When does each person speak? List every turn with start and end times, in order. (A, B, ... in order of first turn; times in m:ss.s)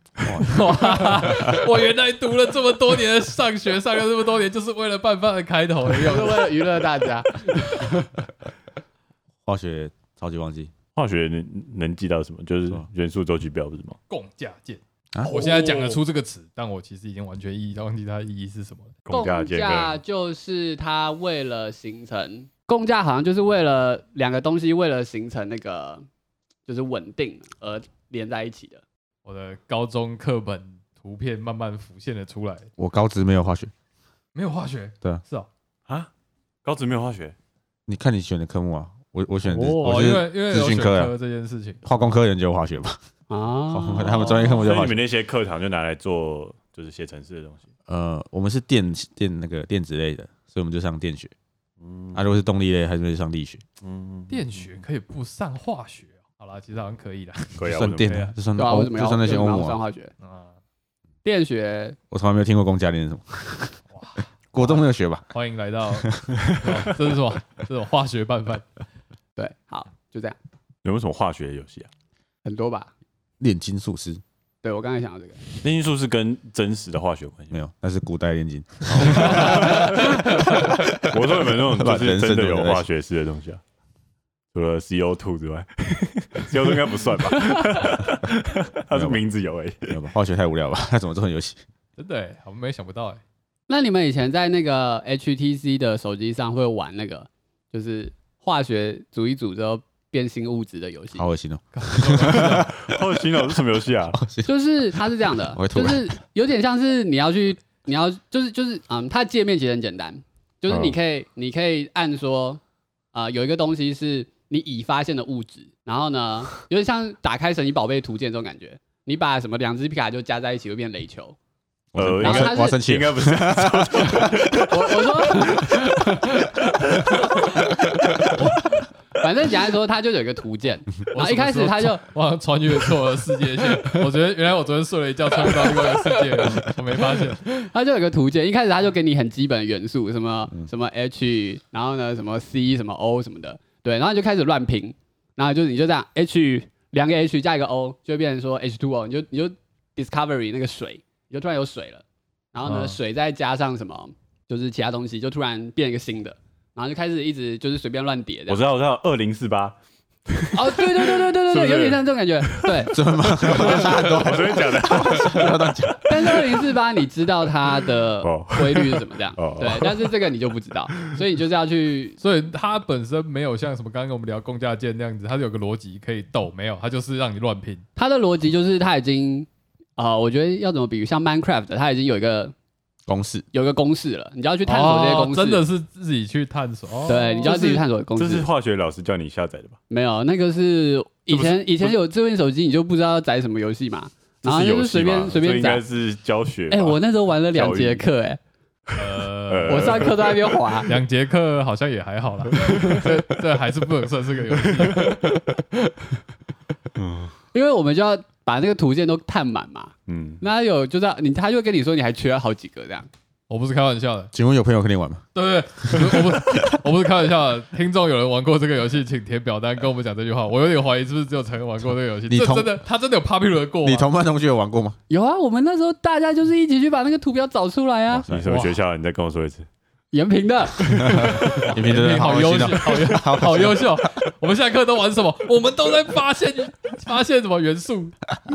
0:00.2-0:01.5 A
0:00.4-0:06.6 B
0:06.0-0:07.9 C
0:07.4-0:07.9 B
0:09.4-0:10.7 A
0:11.0-0:14.0 D
0:14.1-0:19.0 B
0:15.1-0:15.4 A
0:15.3-0:15.9 C
0:19.1-0:20.0 D
0:19.1-0:26.0 C
0:26.6-0:28.8 C
0:29.2-0:32.7 B
0:32.8-0:33.7 A
0:34.3-0:35.5 B
0:36.6-0:37.3 D
0:37.9-0:41.1 A
0:39.4-0:41.9 B
0:41.8-0:43.0 A
0:43.3-0:44.4 C
0:43.7-0:45.0 A
0:44.0-0:44.6 B
0:44.4-0:47.6 D
0:47.9-0:51.3 A
0:51.8-0:52.2 D
0:52.1-0:53.6 A
0:53.8-0:54.4 D
0:54.3-0:58.3 B
0:57.6-0:58.3 D
0:57.7-0:59.8 A
0:58.6-1:00.1 C
1:00.2-1:00.6 B
1:01.2-1:02.0 C
1:02.1-1:03.8 A
1:03.9-1:08.6 B
1:04.5-1:05.3 A
1:06.0-1:06.3 A
1:09.4-1:10.4 C
1:10.8-1:11.9 D
1:12.4-1:12.9 C
1:13.4-1:14.2 A
1:14.6-1:15.4 C
1:15.6-1:17.5 D
1:17.5-1:22.8 A
1:19.0-1:23.6 D
1:24.5-1:30.0 D
1:28.9-1:29.2 A
1:29.8-1:31.6 A
1:32.0-1:33.2 B
1:33.7-1:41.2 C
1:41.2-1:43.6 A
1:41.7-1:42.7 B
1:42.3-1:44.2 D
1:44.1-1:46.1 A
1:44.4-1:52.6 C
1:50.7-1:51.0 D
1:53.1-2:01.4 C
2:01.9-2:04.3 A
2:02.0-2:05.8 D
2:02.2-2:02.8 C
2:04.2-2:07.7 C
2:08.3-2:08.7 B
2:09.2-2:12.0 C
2:11.1-2:17.4 B
2:15.4-2:16.2 C
2:17.4-2:38.6 C
2:32.6-2:33.0 B
2:38.5-2:39.8 D
2:40.3-2:45.6 D
2:40.5-2:44.1 C
2:42.9-2:46.6 A
2:46.1-2:52.2 C
2:48.2-2:50.2 D
2:52.2-2:57.8 B
2:58.0-3:02.5 C
3:03.1-3:03.4 A
3:03.5-3:05.6 C
3:04.6-3:07.8 B
3:07.0-3:08.5 C
3:07.4-3:09.8 D
3:09.9-3:15.8 C
3:11.3-3:11.9 D
3:14.4-3:18.1 D
3:16.7-3:18.4 C
3:18.9-3:20.1 B
3:19.5-3:20.5 D
3:19.7-3:20.9 C
3:20.8-3:25.2 B
3:26.9-3:27.3 D
3:27.5-3:33.1 C
3:30.1-3:30.4 D
3:33.5-3:34.3 B
3:34.3-3:35.2 A
3:35.3-3:44.1 B
3:35.8-3:36.6 A
3:42.3-3:42.8 A
3:43.8-3:45.0 A
3:45.1-3:48.2 C
3:48.1-3:48.5 A
3:48.3-3:49.7 D
3:48.4-3:48.8 B
3:50.1-3:51.5 C
3:51.0-3:54.2 A
3:51.4-3:58.1 B